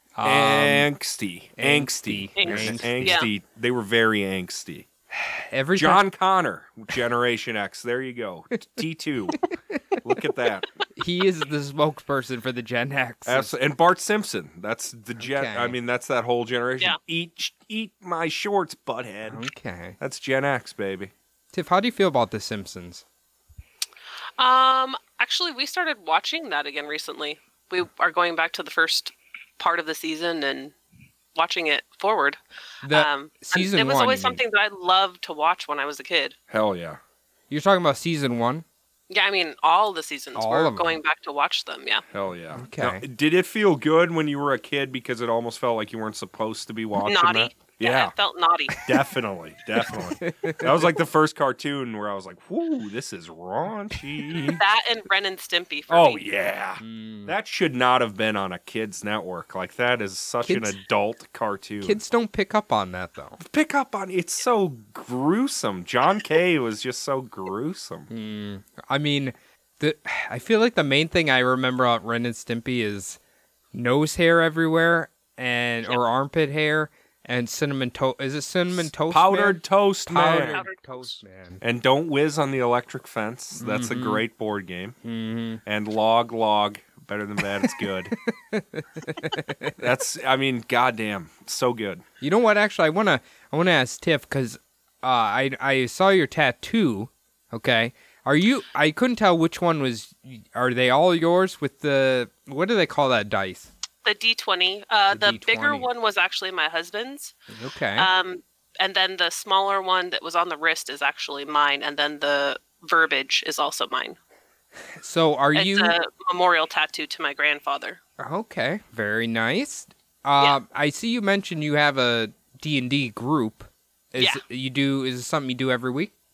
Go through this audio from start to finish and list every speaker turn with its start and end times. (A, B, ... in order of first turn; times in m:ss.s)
0:00.2-0:00.9 A
0:00.2-0:04.9 B
0:01.6-0:03.2 A
0:02.4-0:03.3 C
0:05.1-0:06.0 A
0:05.8-0:09.4 B
0:10.0-0:10.7 B
0:11.0-0:13.5 A
0:13.3-0:19.4 B
0:15.2-0:15.8 A
0:19.3-0:20.0 A
0:20.0-0:21.1 B
0:21.5-0:23.0 A
0:24.4-0:30.7 C
0:31.4-0:32.4 C
0:32.8-0:34.4 A
0:32.9-0:36.4 C
0:36.5-0:37.0 B
0:37.5-0:38.6 A
0:39.1-0:42.0 C
0:40.4-0:41.0 A
0:42.1-0:48.1 B
0:42.6-0:43.0 A
0:47.0-0:48.9 C
0:48.8-0:54.6 B
0:50.2-0:50.8 A
0:54.4-0:56.2 C
0:55.9-1:02.0 B
0:56.8-0:57.3 A
1:00.4-1:00.8 A
1:01.8-1:03.4 A
1:03.4-1:08.1 B
1:08.1-1:13.2 A
1:13.7-1:21.6 A
1:18.7-1:20.6 B
1:20.5-1:21.2 C
1:21.6-1:25.0 B
1:23.6-1:24.2 A
1:25.0-1:25.6 A
1:25.6-1:28.2 B
1:28.2-1:29.8 A
1:29.8-1:32.0 B
1:32.2-1:43.7 A
1:44.0-1:47.4 C
1:45.1-1:45.9 A
1:47.5-1:48.1 A
1:48.0-1:54.2 C
1:55.0-1:56.0 A
1:55.6-1:58.0 C
1:58.2-2:06.1 A